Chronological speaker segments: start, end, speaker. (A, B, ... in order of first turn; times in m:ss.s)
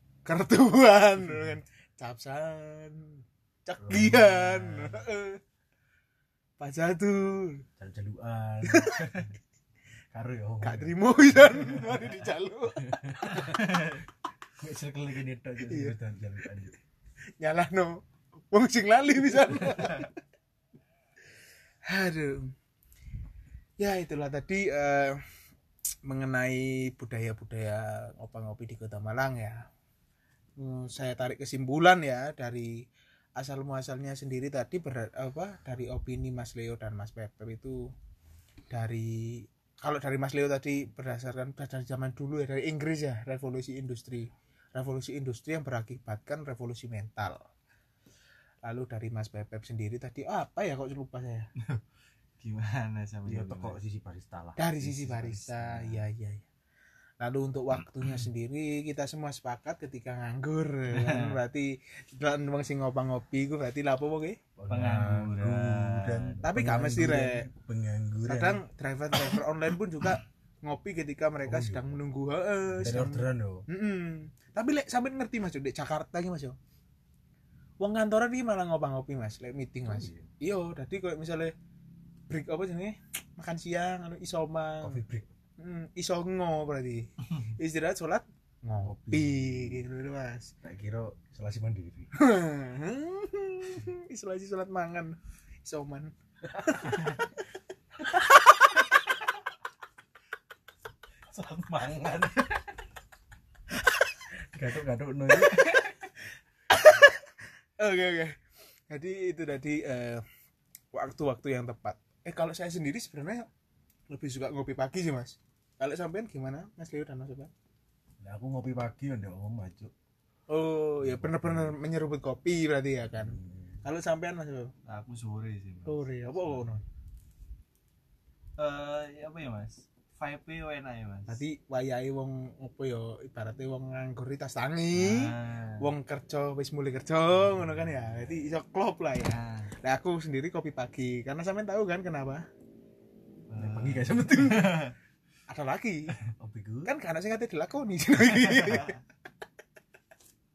0:00.2-0:05.4 A
0:03.8-0:05.0 B
0:06.6-0:07.7 A
0:07.8-0:09.3 B
0:08.6-0:09.2 A
0:10.1-0:12.0 B
0:10.6-0:13.3 A
0:12.8-0:13.9 B
0:13.3-0:14.0 C
0:14.6-0:16.8 B
0:15.6-0:16.0 A
0:17.4-0:20.2 A
0:21.9-0:22.5 A
0:23.8-0:25.2 A
0:26.0-0:29.7 A
0:30.6-0:32.8 A
0:33.4-0:37.9 A
0:38.7-0:47.4 A
0:48.6-0:51.5 A
0:52.4-0:53.8 C
0:53.3-0:56.0 B
0:54.6-0:56.4 A
0:57.2-1:04.4 A
1:00.9-1:01.4 C
1:04.6-1:08.6 B
1:04.7-1:06.4 C
1:06.4-1:07.5 A
1:08.3-1:16.6 A
1:11.5-1:12.0 B
1:12.7-1:13.6 B
1:17.8-1:21.5 A
1:19.9-1:20.3 B
1:22.3-1:25.0 A
1:24.8-1:25.3 B
1:25.6-1:30.5 A
1:28.8-1:29.9 B
1:30.6-1:32.1 B
1:32.1-1:37.4 A
1:36.7-1:37.0 B
1:41.3-1:42.7 B
1:44.5-1:45.8 B
1:45.4-1:45.9 A
1:46.7-1:47.2 A
1:47.8-1:48.4 A
1:48.9-1:50.2 A
1:50.9-1:53.5 A
1:54.1-1:57.5 A
1:58.2-1:59.9 B
2:00.5-2:04.7 A
2:01.0-2:01.8 B
2:03.2-2:03.7 B
2:04.8-2:06.1 C
2:05.8-2:06.8 A
2:08.6-2:11.4 C
2:11.3-2:22.5 A
2:14.9-2:15.9 C
2:17.4-2:18.5 B
2:19.2-2:19.7 C
2:23.5-2:25.0 C
2:23.5-2:24.9 B
2:25.5-2:26.2 A
2:26.4-2:26.9 B
2:26.8-2:29.0 A
2:28.4-2:29.0 C